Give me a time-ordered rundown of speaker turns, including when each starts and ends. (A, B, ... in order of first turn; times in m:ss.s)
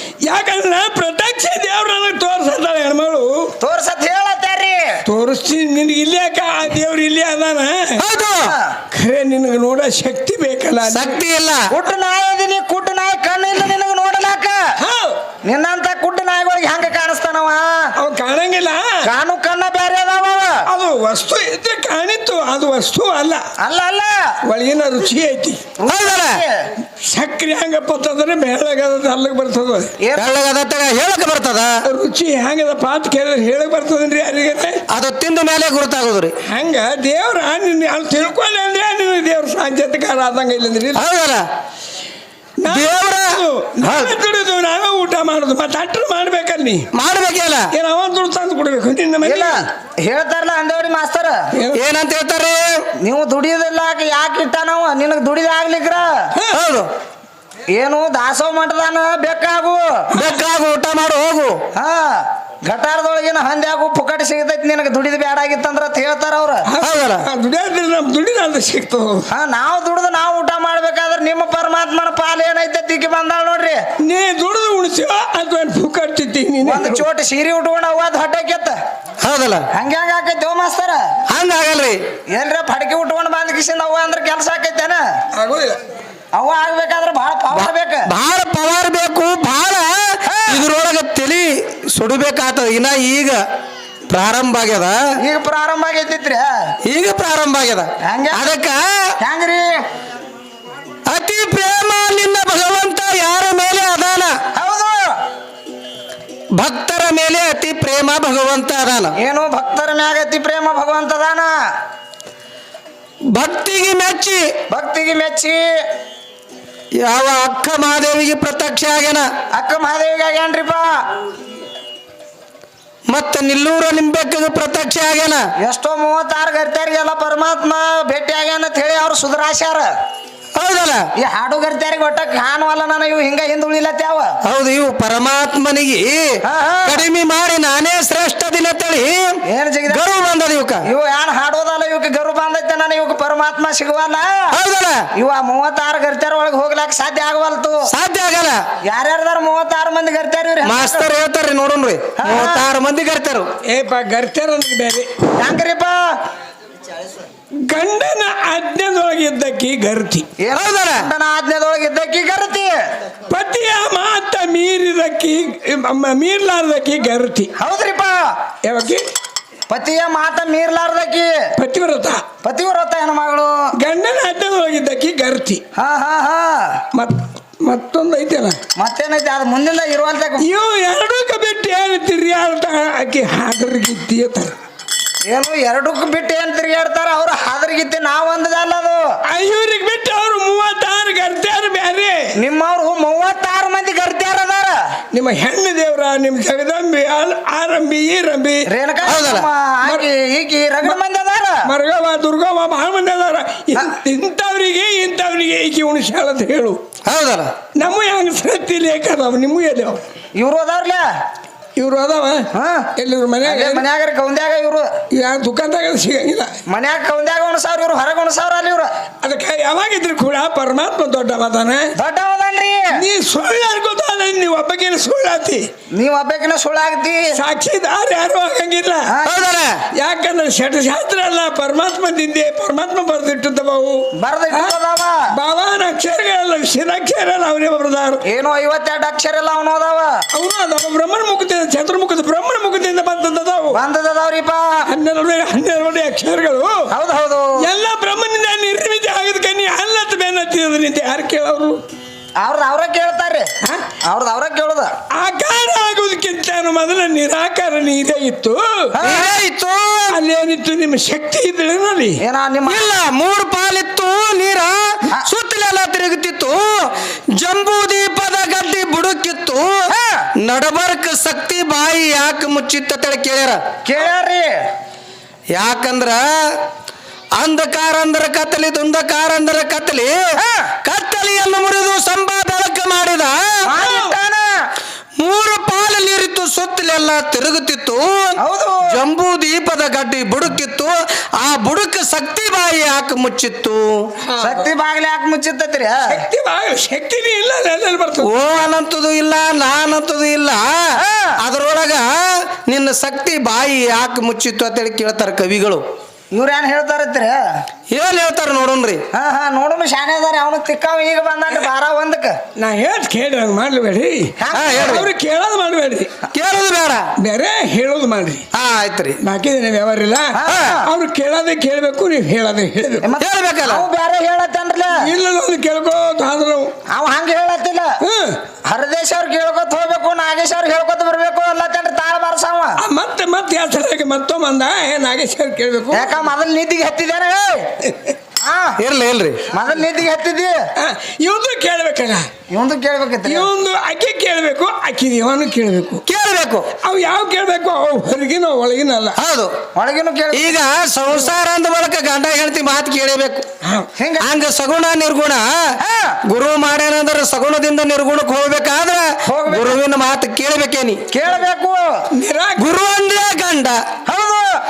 0:00.2-0:03.5 A
0:03.6-0:05.0 B
0:05.1-0:08.0 A
0:08.0-0:08.5 C
0:08.4-0:08.8 B
0:08.9-0:11.2 A
0:10.9-0:11.6 C
0:11.7-0:14.8 B
0:14.8-0:15.2 A
0:15.4-0:17.9 B
0:18.0-0:19.0 A
0:19.0-0:20.7 B
0:20.7-0:23.4 A
0:23.6-0:24.4 B
0:24.4-0:25.6 A
0:25.8-0:26.7 B
0:25.9-0:26.4 C
0:27.0-0:29.9 A
0:30.0-0:30.3 B
0:30.2-0:31.7 C
0:31.8-0:34.8 A
0:34.9-0:36.3 C
0:36.5-0:41.0 A
0:41.0-0:41.4 C
0:42.6-0:46.9 A
0:42.7-0:44.2 C
0:46.9-0:47.7 C
0:47.7-0:49.6 A
0:49.2-0:51.5 B
0:51.5-0:51.8 A
0:51.7-0:52.8 C
0:53.0-0:56.3 B
0:56.5-0:56.9 C
0:57.7-1:00.0 B
1:00.1-1:00.4 A
1:00.2-1:01.6 C
1:01.8-1:06.7 B
1:06.7-1:09.3 A
1:06.8-1:07.3 C
1:09.3-1:13.8 B
1:14.0-1:17.0 A
1:16.6-1:18.8 B
1:19.2-1:19.6 C
1:19.7-1:21.2 B
1:21.3-1:22.0 C
1:22.3-1:25.0 B
1:25.3-1:25.8 A
1:26.3-1:28.1 B
1:27.5-1:33.4 C
1:30.2-1:30.6 B
1:34.1-1:35.0 C
1:35.2-1:36.8 B
1:36.8-1:39.1 C
1:38.0-1:38.5 B
1:39.2-1:39.7 B
1:41.1-1:44.4 C
1:44.5-1:45.2 B
1:46.6-1:49.1 C
1:49.2-1:51.5 B
1:53.3-1:54.4 C
1:54.7-1:55.6 B
1:57.0-1:59.3 C
1:59.5-2:01.0 B
2:03.1-2:05.4 C
2:05.6-2:09.9 B
2:10.6-2:11.0 C
2:11.2-2:14.4 B
2:14.4-2:20.8 C
2:16.4-2:17.0 B
2:19.5-2:20.0 B
2:20.8-2:24.5 B
2:24.5-2:25.1 C
2:25.1-2:27.9 B
2:27.9-2:28.6 C
2:28.9-2:31.1 B
2:30.6-2:33.5 C
2:32.2-2:32.7 B
2:33.6-2:35.2 A
2:35.4-2:36.0 B
2:37.6-2:40.3 A
2:40.4-2:42.8 B
2:40.5-2:41.0 C
2:43.3-2:47.5 A
2:47.6-2:48.3 B
2:48.6-2:49.1 A
2:49.7-2:51.4 B
2:51.6-2:52.2 A
2:52.4-2:53.7 B
2:53.8-2:55.6 A
2:55.8-2:56.8 B
2:56.9-2:58.6 A
2:58.8-3:00.5 B
3:00.4-3:04.5 A
3:05.3-3:09.1 B
3:09.3-3:12.3 A
3:12.4-3:14.8 B
3:15.1-3:18.6 A
3:18.7-3:21.7 B
3:19.1-3:19.5 C
3:21.6-3:26.8 A
3:27.0-3:27.6 C
3:27.8-3:30.0 A
3:30.4-3:31.0 B
3:31.8-3:33.8 A
3:32.5-3:32.9 B
3:33.4-3:34.9 B
3:35.1-3:36.6 A
3:36.7-3:38.9 B
3:39.2-3:41.9 A
3:42.0-3:43.0 B
3:42.9-3:45.7 A
3:46.0-3:47.4 B
3:47.4-3:49.1 A
3:49.1-3:49.4 B
3:49.2-3:49.8 C
3:50.0-3:54.7 A
3:54.2-3:55.3 B
3:55.3-3:58.2 A
3:58.2-4:00.2 B
4:00.3-4:03.8 A
4:03.7-4:04.9 B
4:04.9-4:06.9 A
4:06.9-4:07.6 B
4:07.6-4:11.8 A
4:12.4-4:13.5 B
4:14.1-4:14.9 B
4:15.1-4:19.0 A
4:19.0-4:19.3 B
4:19.0-4:20.2 C
4:20.1-4:22.2 A
4:22.2-4:22.9 B
4:22.7-4:29.8 C
4:29.9-4:30.3 B
4:30.4-4:33.6 C
4:33.8-4:34.5 B
4:35.5-4:36.6 C
4:37.4-4:40.2 C
4:40.4-4:40.7 B
4:40.8-4:43.7 C
4:43.6-4:44.6 B
4:45.2-4:48.4 C
4:48.4-4:48.9 B
4:48.9-4:54.0 C
4:54.2-4:54.7 A
4:54.4-4:56.2 B
4:56.1-4:58.3 A
4:58.2-5:00.9 C
5:01.0-5:01.4 B
5:01.4-5:05.8 C
5:06.3-5:07.6 B
5:07.9-5:09.0 C
5:09.1-5:12.4 B
5:12.6-5:16.1 A
5:14.4-5:15.0 B
5:14.5-5:15.1 C
5:16.3-5:17.1 C
5:17.2-5:18.5 A
5:18.5-5:19.2 C
5:19.2-5:23.1 A
5:20.3-5:20.9 B
5:20.5-5:20.8 C
5:23.0-5:25.1 B
5:23.2-5:23.8 C
5:24.9-5:26.7 A
5:26.9-5:28.0 B
5:28.0-5:28.4 A
5:28.7-5:32.8 B
5:32.8-5:36.2 A
5:35.9-5:37.8 B
5:38.4-5:38.8 B
5:38.8-5:39.4 C
5:39.5-5:40.6 B
5:40.8-5:42.3 A
5:42.5-5:43.5 B
5:43.3-5:46.0 A
5:46.1-5:46.7 C
5:46.8-5:49.2 A
5:49.2-5:49.5 C
5:49.8-5:50.6 B
5:50.3-5:53.4 C
5:54.0-5:54.3 B
5:54.2-5:55.5 C
5:55.8-5:56.2 B
5:56.3-6:01.0 C
5:59.3-5:59.8 B
6:01.1-6:01.8 B
6:02.1-6:02.7 A
6:02.6-6:03.8 C
6:04.1-6:04.6 B